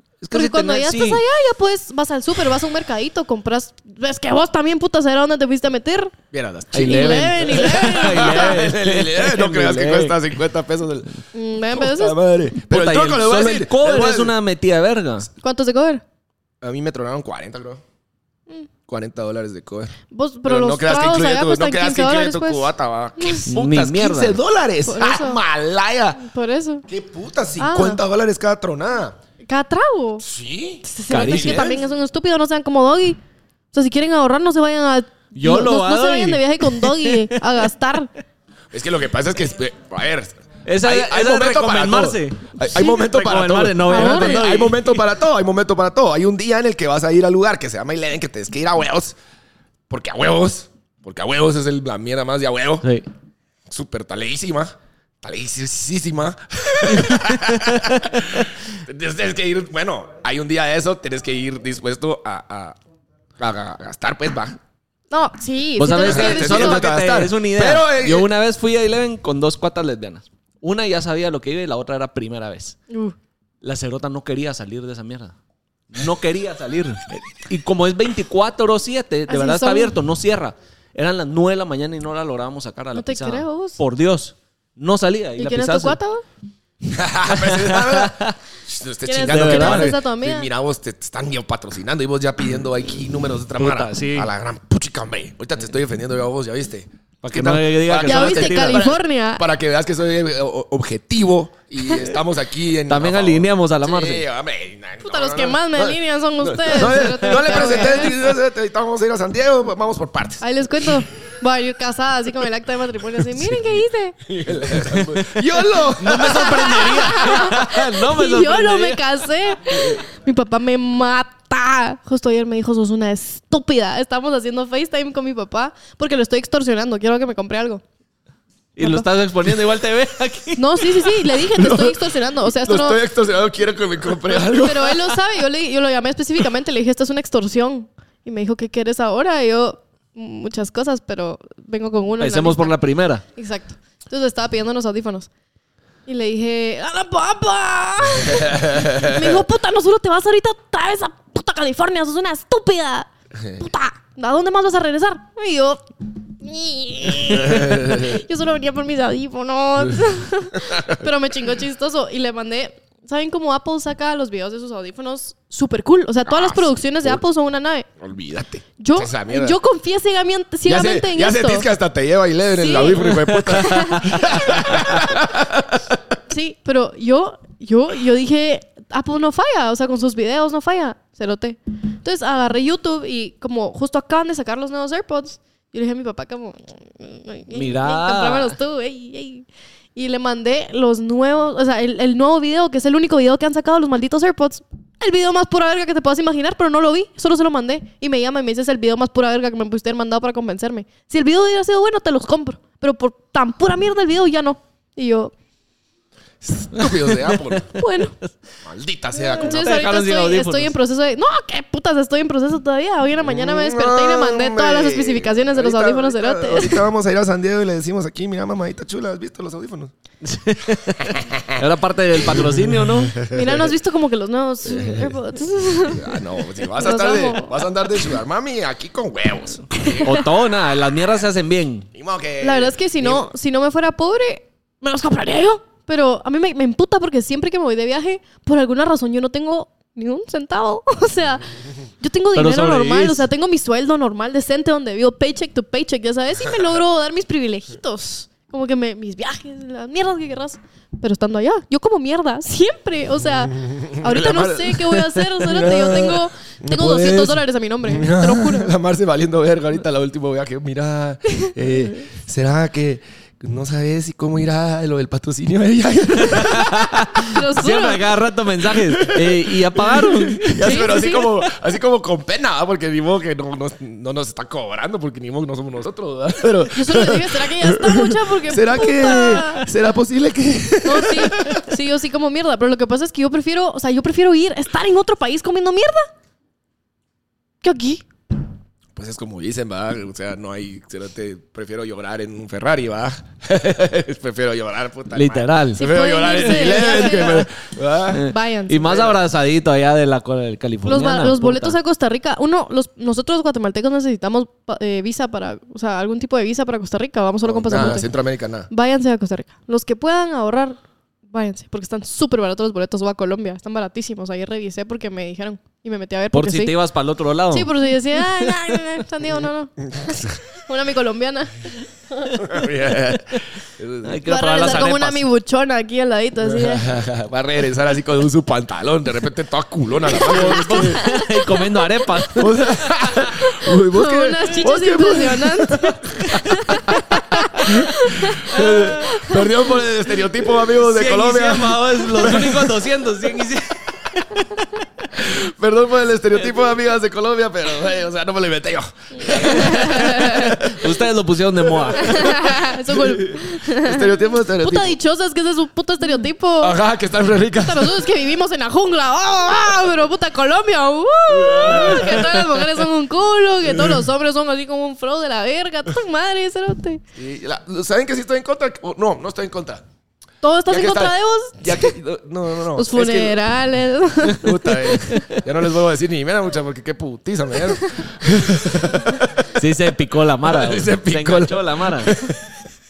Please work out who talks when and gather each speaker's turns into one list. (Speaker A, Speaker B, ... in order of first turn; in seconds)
Speaker A: 0.2-1.2, 6.7-10.2, 12.7-15.3, 23.5-24.4, 31.1-31.7, 35.4-37.7, 40.7-45.0, 56.9-58.5, 65.8-72.8, 73.6-75.3, 75.9-86.0, 87.3-88.4, 89.3-89.9, 93.6-94.3, 97.3-98.9, 102.9-104.2, 107.3-108.0, 114.8-119.0, 128.8-131.2, 142.2-143.2, 187.5-188.6, 206.8-207.6, 209.4-210.7, 220.2-223.2, 230.0-231.9, 242.3-243.3, 266.2-270.9, 295.1-297.4, 298.1-301.8, 316.3-317.7, 324.0-325.2, 330.1-332.6, 338.6-339.0, 340.8-345.1, 350.2-352.4, 379.6-382.1
Speaker B: 0.3-6.1, 6.8-8.6, 11.3-12.2, 15.4-16.0, 20.1-23.5, 24.9-25.4, 26.2-26.9, 27.6-28.0, 29.5-30.2, 30.8-33.2, 33.7-38.1, 43.9-44.4, 65.1-66.9, 72.9-73.2, 79.3-80.0, 83.0-83.8, 85.4-86.2, 89.0-90.5, 98.0-99.5, 105.0-108.2, 110.4-114.2, 116.1-127.8, 128.8-129.1, 130.6-133.0, 134.3-142.8, 143.3-145.3, 146.1-155.8, 156.4-167.9, 168.8-171.7, 172.6-175.1, 176.3-205.3, 207.7-208.1, 209.3-216.8, 223.3-226.1, 226.7-227.6, 229.8-230.2, 232.4-241.5, 242.0-258.7, 261.3-261.6, 267.2-268.0, 270.6-271.3, 276.7-279.7, 280.8-286.1, 287.6-288.1, 295.8-297.5, 298.1-298.8, 300.9-308.1, 308.7-316.8, 317.5-322.4, 324.2-326.9, 330.2-332.3, 333.3-339.4, 349.2-350.6, 352.0-356.8, 357.6-367.0, 370.4-371.9, 372.8-375.1
Speaker C: 6.3-11.1, 11.7-14.3, 16.6-17.8, 18.9-19.9, 20.5-26.2, 26.9-29.2, 30.2-31.8, 38.7-49.2, 49.9-52.9, 53.7-62.8, 63.4-64.6, 66.0-68.3, 86.9-110.4, 114.2-117.0, 131.5-132.0, 132.6-135.0, 148.3-149.2, 157.3-158.2, 160.6-161.1, 166.3-167.2, 168.0-169.6, 170.7-176.0, 206.4-207.7, 208.6-209.9, 213.2-219.9, 221.1-221.6, 222.2-223.7, 224.8-225.1, 225.9-230.2, 231.9-233.3, 253.5-267.2, 268.9-281.6, 289.0-298.2, 298.8-299.2, 307.4-308.7, 319.9-320.4, 322.4-324.2, 326.4-331.0, 332.4-336.7, 337.6-342.8, 345.1-350.9, 351.7-355.0, 356.6-358.1, 361.3-362.5, 363.7-364.0, 367.2-369.8, 370.7-373.4, 374.3-379.6, 380.4-382.6